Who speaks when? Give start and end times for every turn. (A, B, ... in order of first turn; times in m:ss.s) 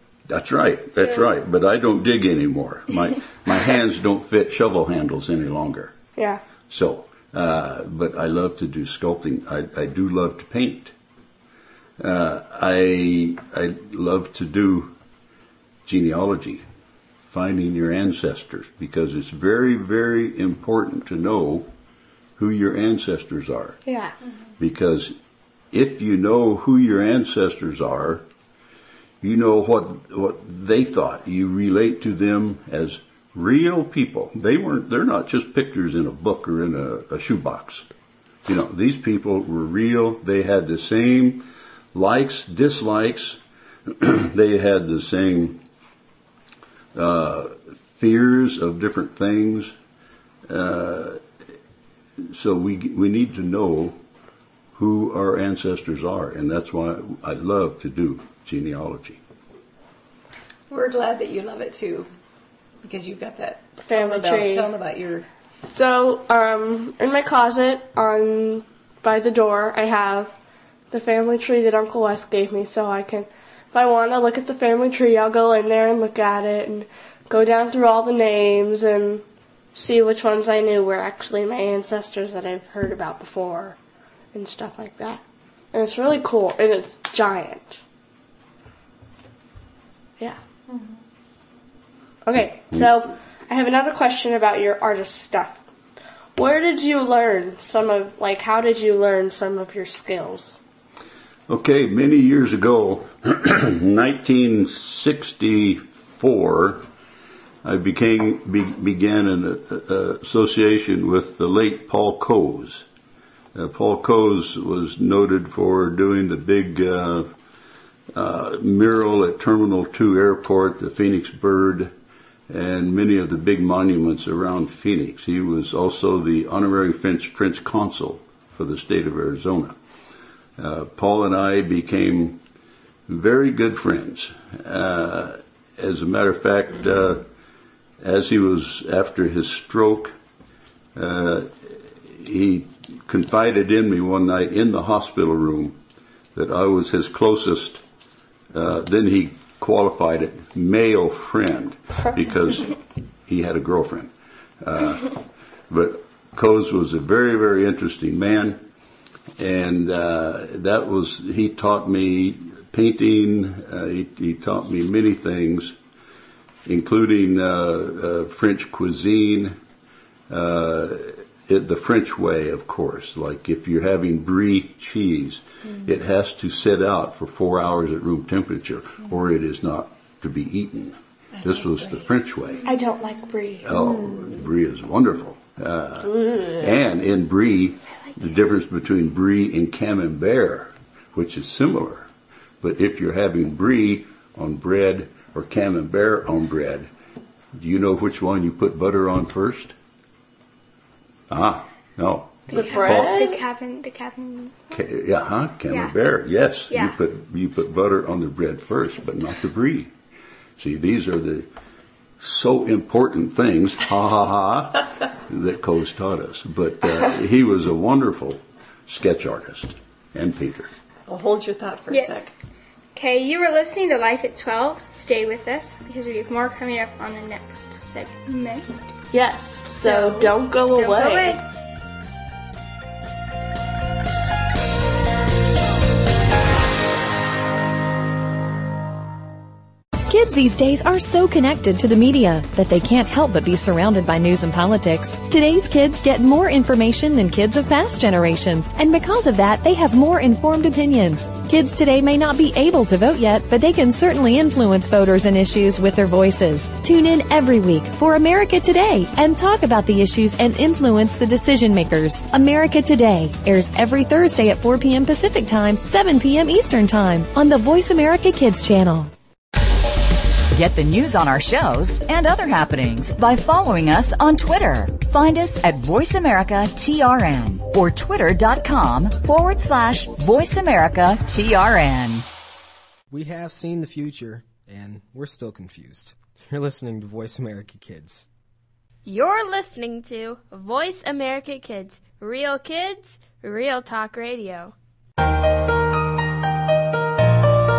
0:00.3-0:05.9 A
0:00.9-0:01.3 B
0:06.2-0:06.4 C
0:06.7-0:10.9 A
0:12.0-0:14.9 A
0:15.8-0:16.6 A
0:17.3-0:21.7 A
0:22.4-0:23.8 A
0:23.8-0:24.1 C
0:24.6-0:25.1 A
0:25.7-0:28.2 A
0:29.2-0:37.9 A
0:38.4-0:45.6 A
0:46.9-0:49.7 A
0:50.5-0:51.2 A
0:52.2-0:54.0 A
0:54.7-0:59.2 A
1:00.7-1:02.1 D
1:02.8-1:05.2 D
1:03.9-1:04.7 C
1:05.7-1:10.3 C
1:10.9-1:19.2 C
1:19.7-1:23.8 C
1:24.3-1:25.2 C
1:25.7-1:27.8 C
1:30.7-1:30.9 D
1:32.2-1:35.6 C
1:36.4-1:40.6 C
1:41.5-1:46.8 A
1:47.6-1:52.8 A
1:53.5-1:57.3 A
1:58.1-2:01.9 A
2:02.5-2:09.8 A
2:10.6-2:12.4 A
2:13.1-2:17.2 A
2:18.0-2:20.2 A
2:20.9-2:25.8 A
2:26.3-2:27.8 A
2:28.5-2:35.2 A
2:35.7-2:38.6 A
2:39.4-2:45.8 A
2:46.6-2:49.6 A
2:50.3-3:02.6 A
3:02.6-3:03.8 C
3:03.6-3:12.1 A
3:06.2-3:06.6 C
3:12.6-3:16.9 A
3:17.5-3:19.7 A
3:21.3-3:23.2 A
3:22.5-3:24.7 B
3:22.5-3:23.4 C
3:24.7-3:29.9 A
3:26.7-3:27.0 B
3:30.6-3:31.5 A
3:32.2-3:40.7 A
3:41.1-3:42.3 D
3:42.9-3:48.9 B
3:49.1-3:51.4 C
3:49.8-3:51.4 B
4:00.1-4:29.1 E
4:30.5-4:42.2 F
4:43.1-4:48.3 G
4:49.0-4:54.7 H